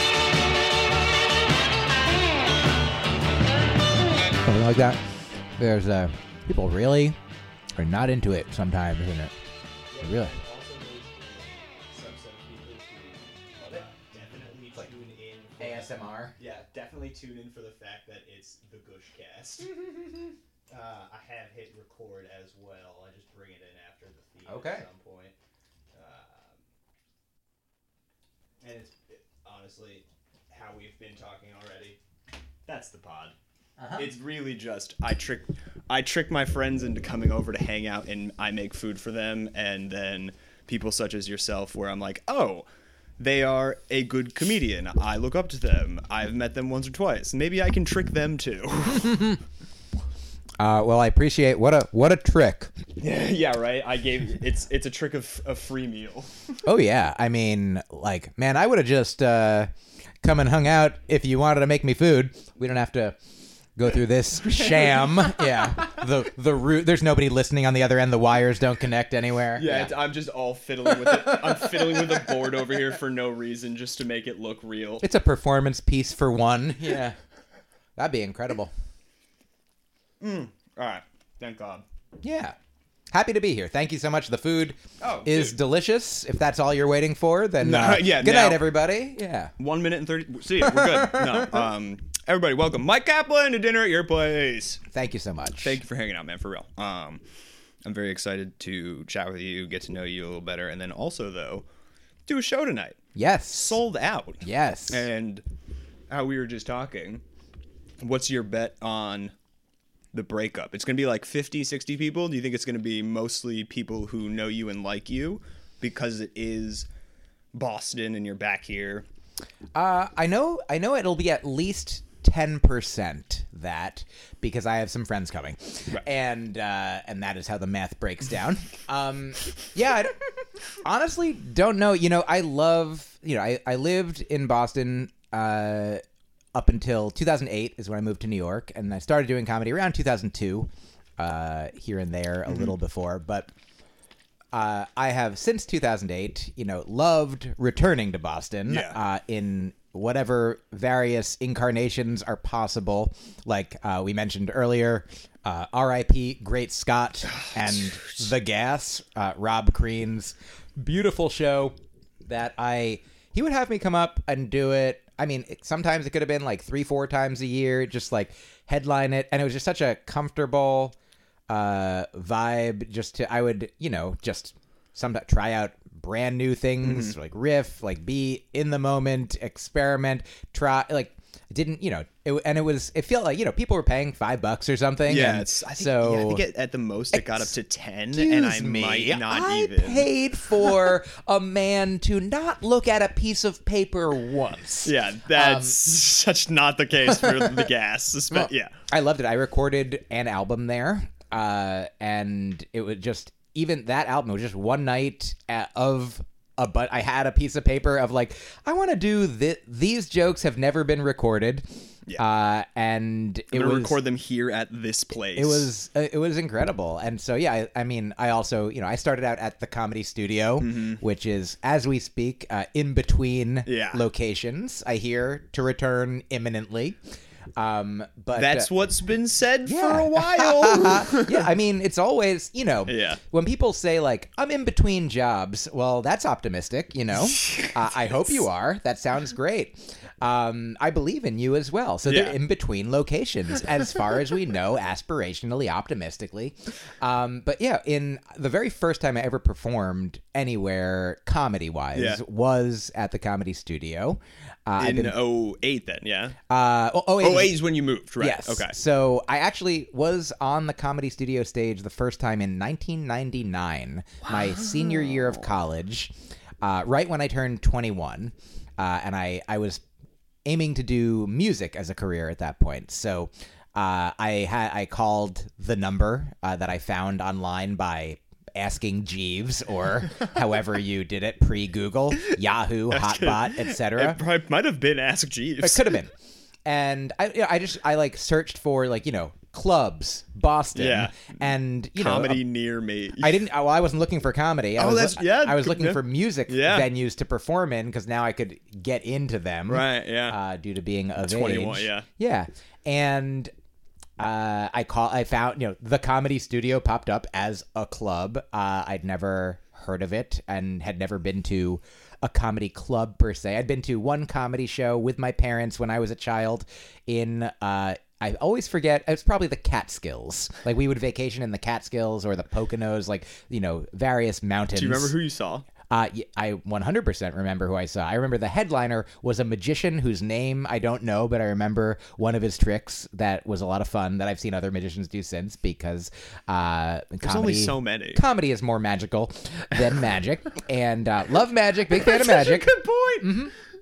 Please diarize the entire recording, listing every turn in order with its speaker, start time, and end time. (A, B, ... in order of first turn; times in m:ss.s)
0:04.4-0:05.0 A
0:05.6-0:07.2 A
0:07.8-0:09.3 A
0:09.9-0:25.3 B
0:10.0-0:10.3 A
0:15.6-0:16.4 A
0:24.4-0:24.8 A
0:25.9-0:26.6 B
0:28.6-0:32.0 B
0:32.6-0:33.3 B
0:33.8-0:34.0 A
0:33.9-0:42.6 B
0:43.2-0:49.4 B
0:49.0-0:49.4 A
0:50.6-0:52.7 A
0:53.0-0:56.6 B
0:56.6-0:59.7 A
1:00.2-1:03.2 A
1:03.7-1:09.9 A
1:04.6-1:05.5 B
1:09.6-1:15.0 B
1:11.2-1:12.3 A
1:15.0-1:17.2 A
1:18.0-1:18.7 A
1:20.2-1:21.8 B
1:22.2-1:22.6 A
1:23.1-1:29.5 A
1:25.0-1:25.6 B
1:27.6-1:28.6 B
1:29.6-1:34.8 B
1:30.6-1:31.6 A
1:34.9-1:35.8 A
1:35.6-1:37.2 B
1:37.8-1:41.6 B
1:42.2-1:43.0 B
1:43.1-1:43.8 A
1:43.5-1:45.4 B
1:44.4-1:45.0 A
1:46.1-1:47.2 B
1:48.0-1:49.3 B
1:50.1-1:56.9 B
1:57.5-1:59.0 B
1:59.7-2:10.2 A
2:10.7-2:16.0 A
2:16.5-2:23.5 A
2:24.5-2:51.0 A
2:28.7-2:29.0 B
2:37.3-2:38.2 B
2:51.5-3:06.4 A
2:56.8-2:57.1 B
3:05.1-3:10.1 B
3:07.1-3:07.4 A
3:08.1-3:15.8 A
3:14.8-3:18.7 B
3:17.2-3:17.6 A
3:18.3-3:34.0 A
3:33.5-3:35.7 B
3:35.3-3:47.0 A
3:40.6-3:41.0 B
3:43.6-3:44.0 B
3:47.6-3:48.7 A
3:48.3-3:51.5 B
3:49.6-4:15.2 A
3:52.9-3:53.2 B
3:57.2-3:58.3 B
4:02.0-4:02.4 B
4:11.9-4:12.2 B
4:14.8-4:16.4 B
4:16.5-4:17.6 A
4:17.2-4:18.7 B
4:18.2-4:29.8 A
4:24.3-4:25.3 B
4:30.4-4:44.2 A
4:42.9-4:46.0 B
4:45.6-4:46.1 A
4:46.6-4:52.4 A
4:50.7-4:51.3 B
4:52.0-4:53.4 B
4:53.2-5:03.5 A
4:54.8-4:56.9 B
4:59.7-5:00.4 B
5:01.2-5:02.0 B
5:04.2-5:25.1 A
5:24.7-5:25.6 B
5:25.9-5:43.5 A
5:37.2-5:38.2 B
5:41.9-5:43.3 B